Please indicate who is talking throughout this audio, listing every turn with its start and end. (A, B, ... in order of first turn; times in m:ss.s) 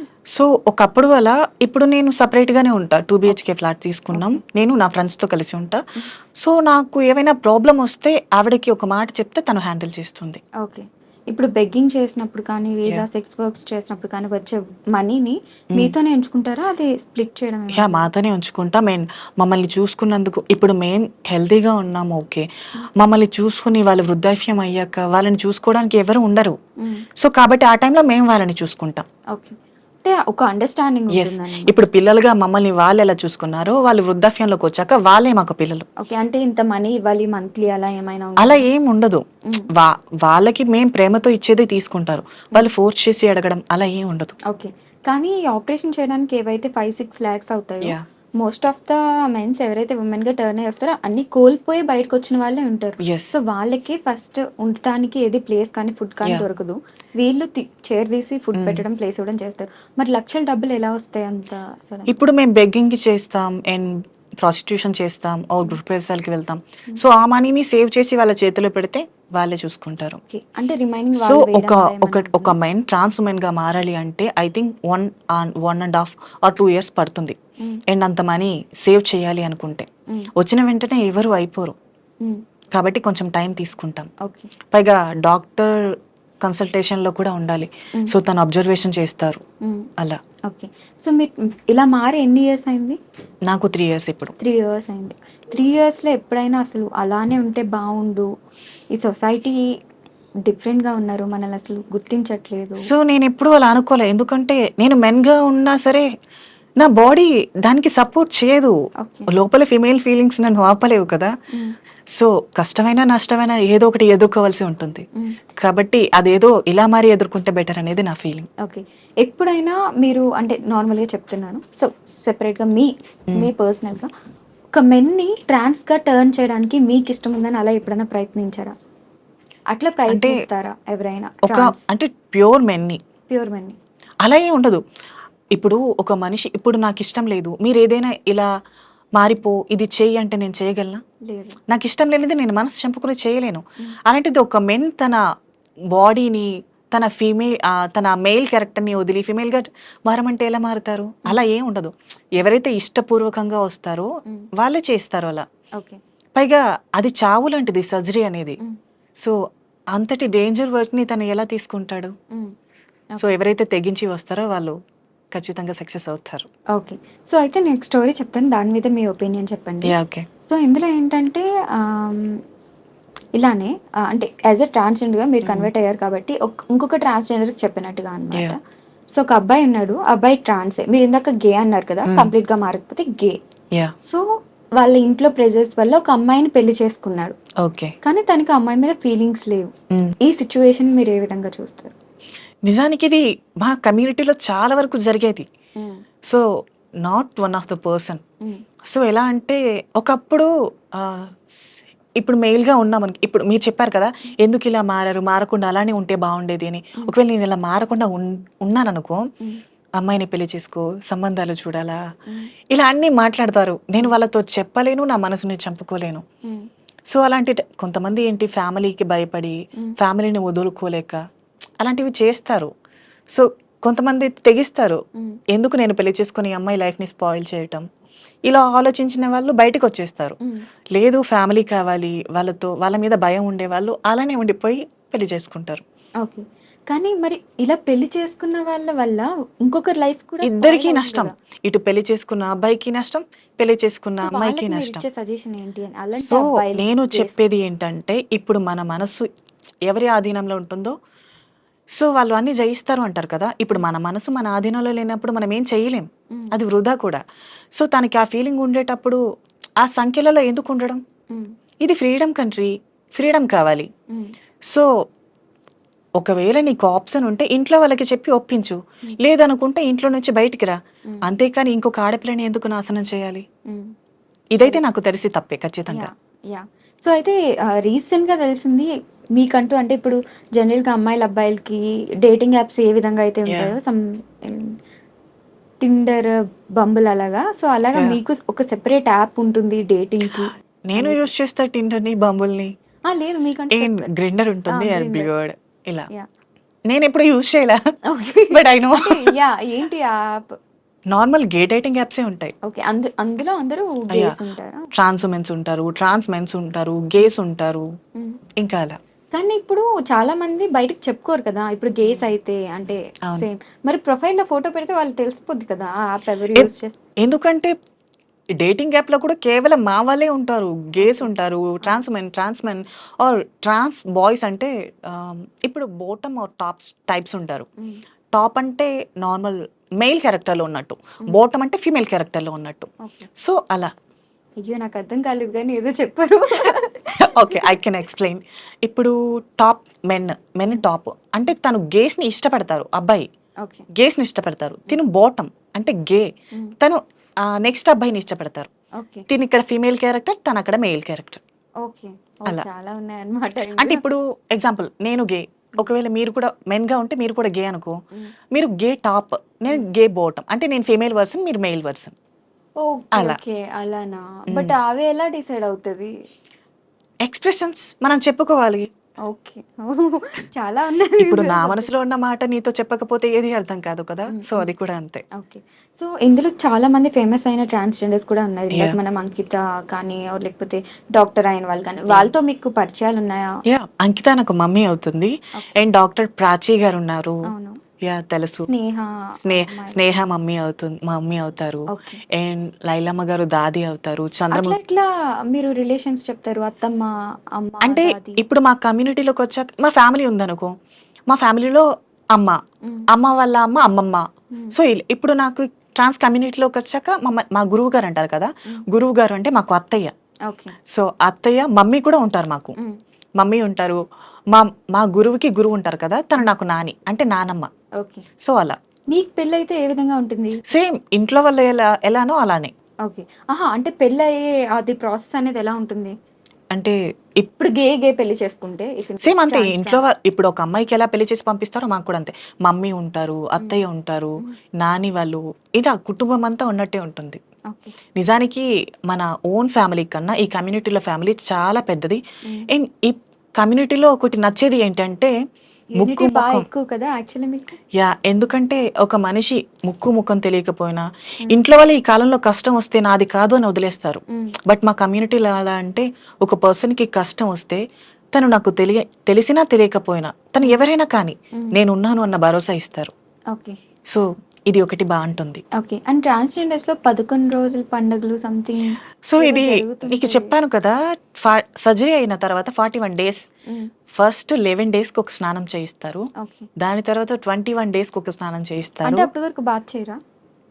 0:00.3-0:05.8 A
0:04.1-0:04.4 B
0:06.4-0:10.4 A
0:10.6-0:18.1 B
0:17.7-0:22.5 A
0:23.0-0:26.6 A
0:26.8-0:27.1 B
0:27.2-0:29.0 A
0:29.3-0:31.8 B
0:31.1-0:35.9 A
0:36.0-0:38.7 B
0:38.4-0:44.4 A
0:44.5-1:02.2 B
0:53.0-0:53.4 A
0:58.6-0:58.8 A
1:02.1-1:10.2 A
1:10.3-1:12.5 B
1:11.2-1:17.4 A
1:17.9-1:19.9 A
1:20.4-1:21.8 A
1:22.7-1:24.1 A
1:24.2-1:24.5 B
1:24.7-1:25.9 A
1:26.4-1:29.4 A
1:29.6-1:29.9 B
1:30.5-1:33.0 B
1:33.5-1:34.3 A
1:34.4-1:38.3 B
1:38.9-1:39.6 B
1:40.5-1:42.9 B
1:42.8-1:46.1 A
1:46.8-1:48.8 A
1:49.0-1:49.3 B
1:49.3-1:51.3 A
1:52.2-1:55.1 A
1:55.6-1:58.5 A
1:58.6-2:04.1 B
2:04.7-2:08.8 B
2:09.7-2:11.8 B
2:10.1-2:10.4 A
2:11.5-2:13.0 A
2:13.3-2:13.8 B
2:14.2-2:14.8 A
2:15.5-2:18.5 A
2:19.2-2:21.0 A
2:21.3-2:21.6 B
2:21.7-2:25.2 A
2:26.0-2:35.4 A
2:36.4-2:38.6 A
2:40.0-2:42.1 A
2:43.2-2:44.8 A
2:45.3-2:46.5 A
2:46.8-2:52.4 B
2:49.8-2:50.3 A
2:53.4-2:58.6 B
2:55.4-2:55.7 A
2:59.1-3:03.4 B
3:02.0-3:02.3 A
3:04.8-3:07.4 B
3:07.6-3:08.0 A
3:08.0-3:09.7 B
3:10.2-3:11.9 B
3:12.7-3:15.5 A
3:15.8-3:16.0 B
3:17.0-3:18.2 A
3:18.9-3:21.3 A
3:22.2-3:29.2 A
3:30.0-3:32.0 A
3:32.7-3:36.2 A
3:37.1-3:41.2 A
3:41.8-3:42.7 A
3:43.3-3:45.0 A
3:45.5-3:47.8 A
3:48.5-3:50.4 A
3:51.0-3:55.8 A
3:56.2-4:01.3 B
4:00.4-4:05.0 A
4:04.2-4:07.4 B
4:06.2-4:09.3 A
4:09.9-4:11.0 A
4:12.0-4:17.2 A
4:16.3-4:16.6 B
4:17.8-4:19.2 A
4:19.8-4:21.0 A
4:21.8-4:23.9 A
4:26.2-4:33.4 A
4:31.1-4:31.3 B
4:33.7-4:33.9 B
4:34.5-4:36.1 A
4:35.9-4:44.8 B
4:43.5-4:43.8 A
4:45.8-4:51.3 B
4:47.9-4:48.2 A
4:50.9-4:52.7 A
4:53.1-4:54.1 B
4:53.7-4:56.1 A
4:54.7-4:55.3 B
4:56.9-4:57.8 A
4:58.1-5:00.6 B
4:58.5-4:59.4 A
5:01.1-5:02.5 A
5:02.6-5:04.9 B
5:05.0-5:07.9 A
5:08.6-5:09.0 A
5:09.3-5:17.0 B
5:17.2-5:17.7 A
5:18.6-5:27.7 A
5:21.0-5:21.3 B
5:28.3-5:32.9 A
5:33.0-5:33.3 B
5:33.4-5:33.9 A
5:34.6-5:37.8 B
5:37.2-5:43.3 A
5:44.0-5:46.3 A
5:46.8-5:48.7 A
5:49.0-5:49.3 B
5:49.3-5:51.4 A
5:51.8-5:54.0 B
5:53.8-5:58.0 A
5:58.5-6:02.1 A
6:02.8-6:06.1 B
6:04.5-6:04.8 A
6:07.3-6:08.9 A
6:09.3-6:11.9 B
6:11.2-6:15.2 A
6:14.3-6:14.7 B
6:15.4-6:23.5 B
6:23.7-6:27.4 A
6:27.5-6:27.8 B
6:28.0-6:28.7 A
6:28.6-6:30.2 B
6:29.4-6:34.8 A
6:31.9-6:32.2 B
6:34.5-6:38.5 B
6:37.8-6:40.7 A
6:41.3-6:42.6 A
6:42.8-6:43.1 B
6:43.1-6:50.1 A
6:50.5-6:50.8 B
6:50.9-6:52.8 A
6:53.4-6:54.0 A
6:54.5-6:57.7 A
6:58.0-6:58.3 B
6:58.4-6:58.8 A
6:59.1-7:00.7 B
7:00.7-7:02.7 A
7:03.1-7:06.1 B
7:06.7-7:07.4 A
7:07.5-7:10.1 B
7:09.2-7:17.4 A
7:17.7-7:18.0 B
7:18.2-7:25.3 A
7:26.0-7:26.7 A
7:26.0-7:27.8 B
7:28.0-7:37.8 A
7:38.4-7:43.1 A
7:41.5-7:41.8 B
7:43.5-7:43.8 B
7:44.1-7:45.6 A
7:45.8-7:50.5 B
7:49.3-7:53.4 A
7:54.1-7:56.3 A
7:56.4-7:56.7 B
7:56.8-7:59.3 A
7:59.0-8:00.2 B